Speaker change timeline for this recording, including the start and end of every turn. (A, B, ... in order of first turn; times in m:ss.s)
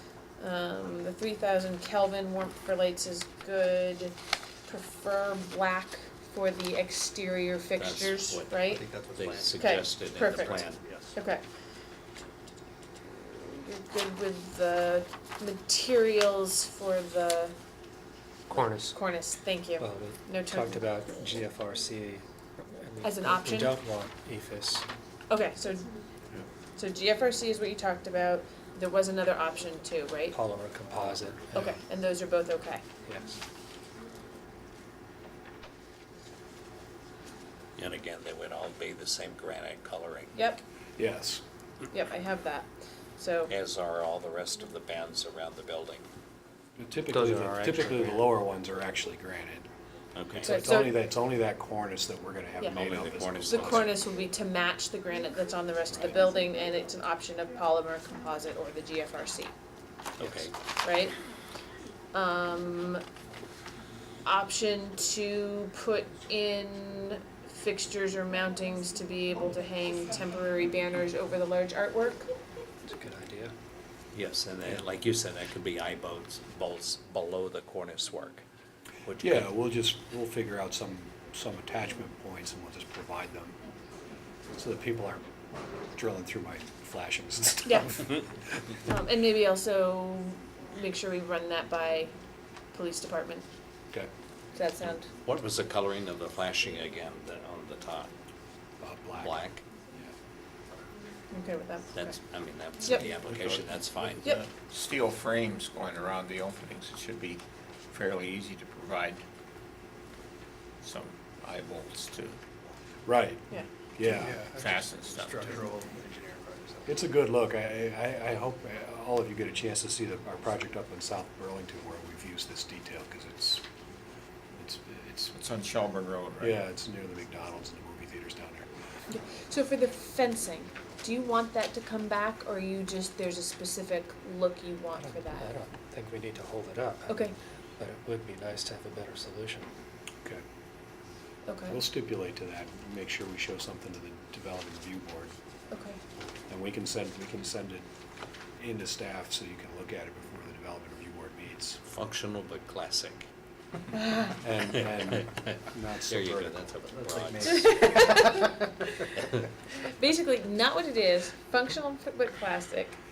0:00.4-0:08.9 A
0:07.8-0:10.8 B
0:09.6-0:11.4 A
0:13.1-0:17.6 A
0:18.5-0:18.9 C
0:18.9-0:20.8 A
0:19.8-0:24.9 C
0:23.0-0:23.8 A
0:25.3-0:25.9 A
0:26.8-0:30.4 A
0:30.3-0:31.8 C
0:31.5-0:32.8 A
0:33.0-0:33.4 C
0:37.8-0:40.4 B
0:40.4-0:40.6 A
0:41.0-0:41.4 D
0:41.9-0:43.5 A
0:43.5-0:46.1 B
0:46.8-0:49.7 D
0:47.1-0:48.4 C
0:50.2-0:50.6 B
0:50.4-0:53.9 D
0:50.4-0:51.0 A
0:52.6-0:52.9 A
0:52.7-0:54.0 B
0:53.5-0:59.5 A
1:00.2-1:00.6 B
1:00.8-1:01.1 A
1:02.1-1:03.0 A
1:04.2-1:12.3 A
1:12.8-1:13.6 C
1:14.1-1:18.4 B
1:19.0-1:19.5 B
1:19.2-1:23.6 D
1:24.6-1:25.2 D
1:26.0-1:28.2 D
1:27.6-1:28.0 A
1:28.8-1:32.2 A
1:32.7-1:33.4 A
1:34.5-1:35.1 A
1:34.8-1:38.1 B
1:38.8-1:39.4 D
1:39.2-1:39.6 B
1:41.3-1:42.2 A
1:41.9-1:44.4 B
1:42.9-1:49.2 E
1:50.8-1:52.4 E
1:53.1-1:54.5 D
1:54.1-1:56.9 C
1:54.5-1:55.8 E
1:56.9-2:03.6 D
2:04.6-2:05.3 D
2:05.3-2:06.6 E
2:06.4-2:08.7 D
2:09.1-2:15.5 A
2:15.0-2:19.7 C
2:17.1-2:17.4 A
2:21.5-2:21.8 A
2:21.7-2:25.3 D
2:25.7-2:26.0 A
2:26.5-2:27.9 D
2:28.6-2:31.8 D
2:31.8-2:33.3 B
2:34.4-2:37.7 D
2:35.1-2:37.8 B
2:37.4-2:38.6 A
2:39.8-2:43.0 A